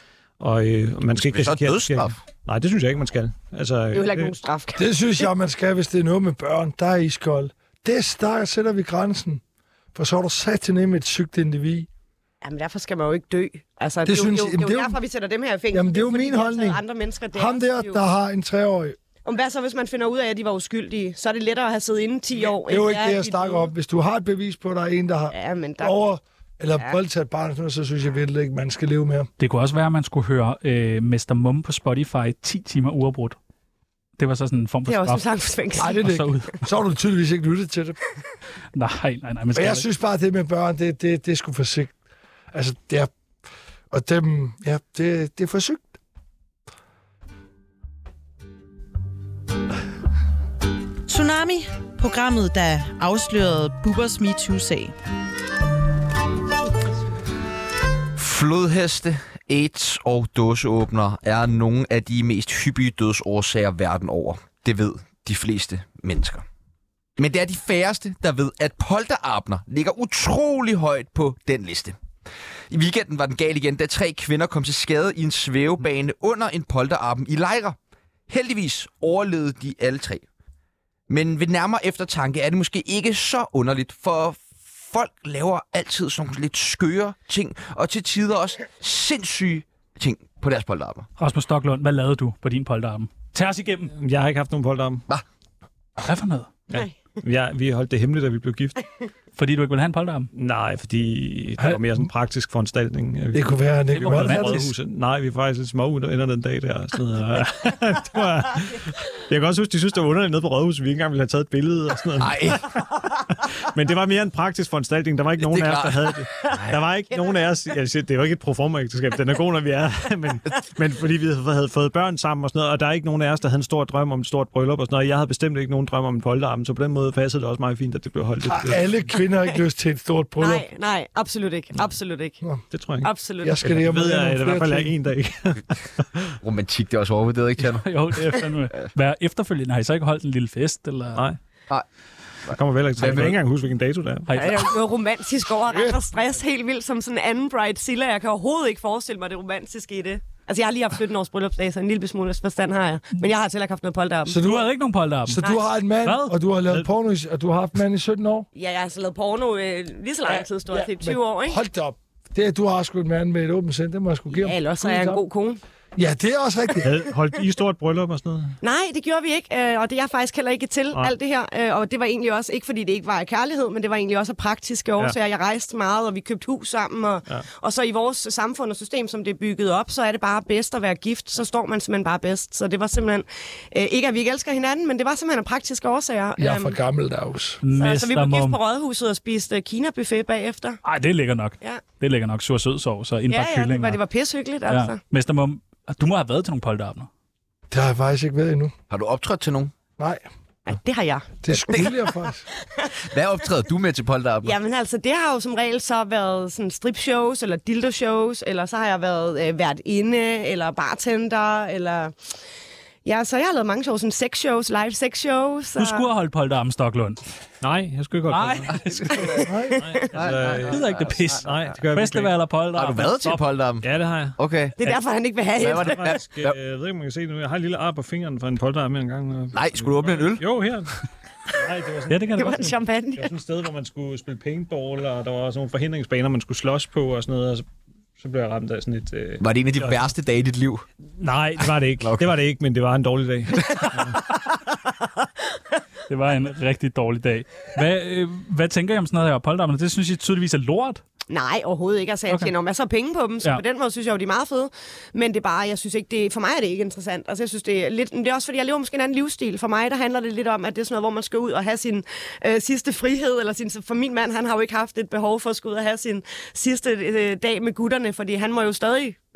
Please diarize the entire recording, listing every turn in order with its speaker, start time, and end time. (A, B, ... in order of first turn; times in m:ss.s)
0:00.4-0:04.3 A
0:01.1-0:02.2 B
0:03.9-0:04.9 C
0:04.8-0:09.4 D
0:10.0-0:11.9 D
0:12.4-0:18.0 C
0:14.0-0:15.0 D
0:15.7-0:16.8 D
0:17.4-0:19.0 D
0:19.2-0:23.7 C
0:22.6-0:29.3 D
0:25.3-0:26.0 C
0:29.4-0:33.4 E
0:34.2-0:36.6 E
0:34.9-0:35.9 C
0:35.8-0:38.0 D
0:38.8-0:39.9 E
0:39.5-0:42.0 D
0:42.5-0:43.1 D
0:43.9-0:45.9 D
0:51.1-0:54.9 F
0:58.2-1:06.4 B
1:07.2-1:12.0 B
1:12.7-1:17.8 B
1:18.3-1:20.2 B
1:21.1-1:31.1 B
1:31.2-1:33.9 E
1:33.9-1:35.1 A
1:36.0-1:36.5 E
1:36.7-1:38.8 A
1:39.4-1:40.3 E
1:40.3-2:09.0 A
1:43.3-1:44.6 D
1:44.0-1:44.7 E
1:52.2-1:52.8 B
1:55.4-1:56.7 B
2:08.5-2:10.6 D
2:10.4-2:12.4 C
2:12.7-2:13.1 A
2:13.0-2:13.6 C
2:13.4-2:14.9 D
2:13.6-2:16.4 A
2:16.4-2:18.2 B
2:17.6-2:21.2 E
2:22.5-2:23.4 B
2:22.5-2:24.5 A
2:24.3-2:24.7 E
2:24.3-2:34.4 C
2:34.3-2:34.7 D
2:34.3-2:35.4 E
2:35.2-2:38.5 D
2:36.0-2:36.4 E
2:38.6-2:41.6 C
2:40.3-2:45.2 D
2:44.3-2:45.6 C
2:46.0-2:47.0 D
2:46.8-2:48.6 A
2:48.6-3:06.8 C
3:06.4-3:07.6 D
3:07.6-3:08.6 E
3:07.8-3:10.8 C
3:10.8-3:14.0 E
3:13.3-3:15.0 C
3:14.7-3:17.1 E
3:17.7-3:18.7 D
3:18.9-3:19.7 B
3:20.0-3:20.2 D
3:20.7-3:21.3 C
3:21.4-3:22.4 D
3:21.5-3:22.1 B
3:23.0-3:24.6 B
3:24.4-3:32.1 C
3:33.0-3:36.1 C
3:35.8-3:37.2 E
3:37.6-3:42.3 A
3:38.3-3:39.5 E
3:38.8-3:39.5 B
3:39.4-3:40.1 C
3:39.5-3:39.8 D
3:40.1-3:41.5 B
3:40.6-3:43.4 E
3:42.7-3:44.8 B
3:43.8-3:44.4 A
3:44.8-3:46.2 C
3:45.6-3:46.6 B
3:45.6-3:57.7 A
3:49.5-3:50.4 B
3:52.1-3:52.8 E
3:52.4-3:53.3 C
3:58.2-4:00.1 A
3:59.4-4:00.9 B
4:01.2-4:04.3 A
4:02.0-4:02.3 B
4:06.1-4:11.0 E
4:11.3-4:29.2 C